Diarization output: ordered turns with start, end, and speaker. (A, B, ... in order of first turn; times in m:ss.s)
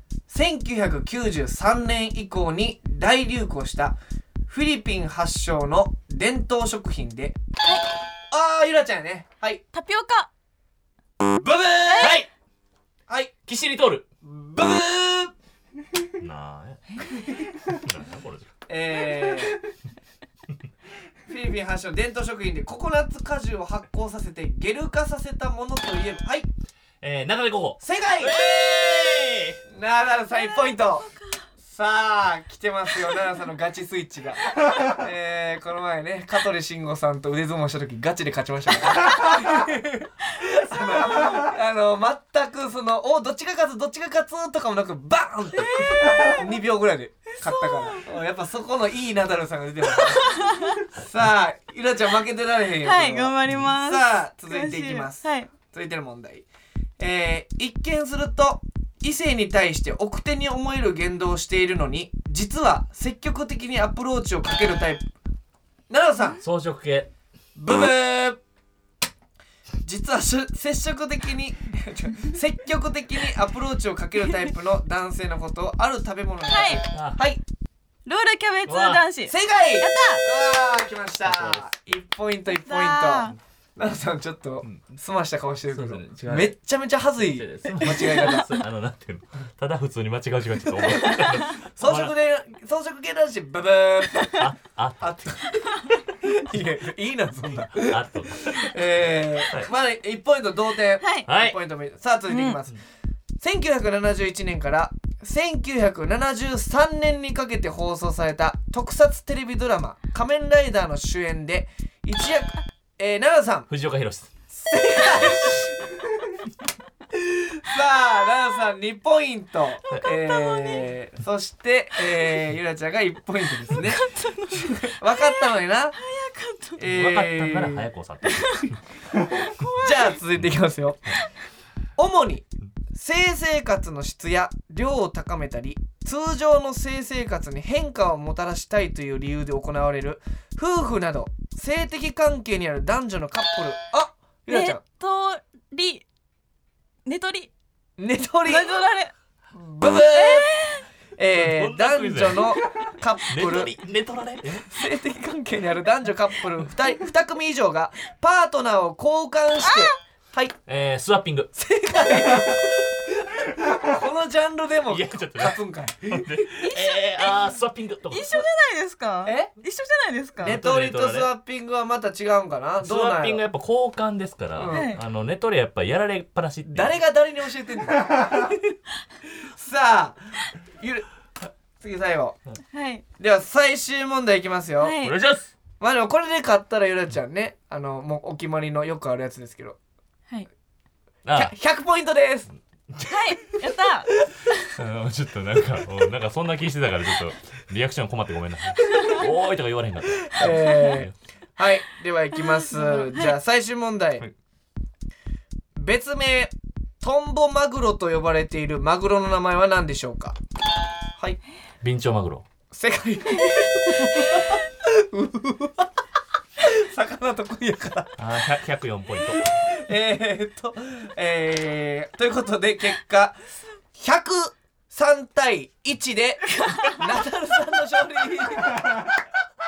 0:00.3-0:07.4 A
0:07.6-0:07.9 B
0:08.3-0:09.6 A
0:09.7-0:10.3 B
0:11.4-0:12.2 A
0:11.8-0:12.2 B
0:12.0-0:12.3 C
0:13.5-0:14.1 C
0:14.2-0:15.3 A
0:16.2-0:16.8 C
0:17.7-0:18.5 C
0:18.7-0:19.6 A
0:21.3-0:26.5 A
0:27.0-0:29.6 C
0:27.8-0:28.4 A
0:29.7-0:31.1 A
0:30.3-0:31.4 B
0:31.6-0:56.4 A
0:45.6-0:46.4 B
0:47.3-0:48.0 B
0:50.2-0:50.8 B
0:52.8-0:55.5 B
0:57.0-1:05.1 A
1:05.9-1:06.4 A
1:06.4-1:07.1 C
1:07.6-1:08.4 A
1:09.8-1:17.4 A
1:16.5-1:16.8 B
1:16.9-1:17.2 C
1:18.0-1:20.2 B
1:18.7-1:19.0 C
1:19.2-1:28.5 A
1:21.2-1:21.6 C
1:22.5-1:23.4 B
1:24.6-1:24.9 C
1:25.7-1:26.5 C
1:27.2-1:32.1 C
1:27.8-1:28.6 B
1:30.9-1:31.5 B
1:31.7-1:34.4 A
1:34.4-1:35.2 C
1:35.0-1:42.7 A
1:37.7-1:38.8 C
1:41.0-1:41.3 B
1:41.3-1:41.6 C
1:42.3-1:42.6 B
1:43.4-1:53.7 A
1:53.7-1:54.3 C
1:54.5-1:56.4 A
1:57.1-2:06.0 A
1:59.9-2:00.9 B
2:03.7-2:06.8 B
2:06.8-2:07.9 A
2:06.8-2:08.8 C
2:08.3-2:08.7 B
2:09.2-2:10.1 B
2:09.8-2:11.1 A
2:12.0-2:24.8 A
2:24.5-2:26.0 B
2:27.0-2:27.5 B
2:28.0-2:28.7 A
2:28.4-2:29.1 B
2:29.5-2:30.6 A
2:30.1-2:30.8 B
2:31.2-2:33.7 A
2:31.3-2:34.7 C
2:34.7-2:40.6 A
2:40.7-2:41.5 C
2:41.5-2:46.4 A
2:44.9-2:48.4 C
2:46.6-2:47.5 B
2:48.1-2:50.6 B
2:49.2-2:49.5 A
2:50.4-2:53.4 A
2:50.4-2:51.3 C
2:52.8-2:56.9 C
2:54.5-2:54.9 A
2:54.7-2:55.0 B
2:56.7-3:02.4 A
3:02.7-3:03.0 B
3:03.2-3:05.0 A
3:04.8-3:05.2 B
3:05.0-3:05.5 C
3:05.8-3:09.8 A
3:11.2-3:11.5 C
3:11.3-3:12.5 A
3:13.0-3:14.7 B
3:14.7-3:21.1 C
3:18.9-3:19.2 B
3:20.3-3:24.2 A
3:20.6-3:21.0 B
3:22.5-3:23.3 B
3:25.8-3:30.4 A
3:31.8-3:32.4 C
3:32.7-3:35.9 A
3:34.2-3:34.4 B
3:36.6-3:38.2 A
3:38.2-3:39.7 C
3:39.6-3:43.4 A
3:43.9-3:49.2 A
3:46.6-3:47.0 B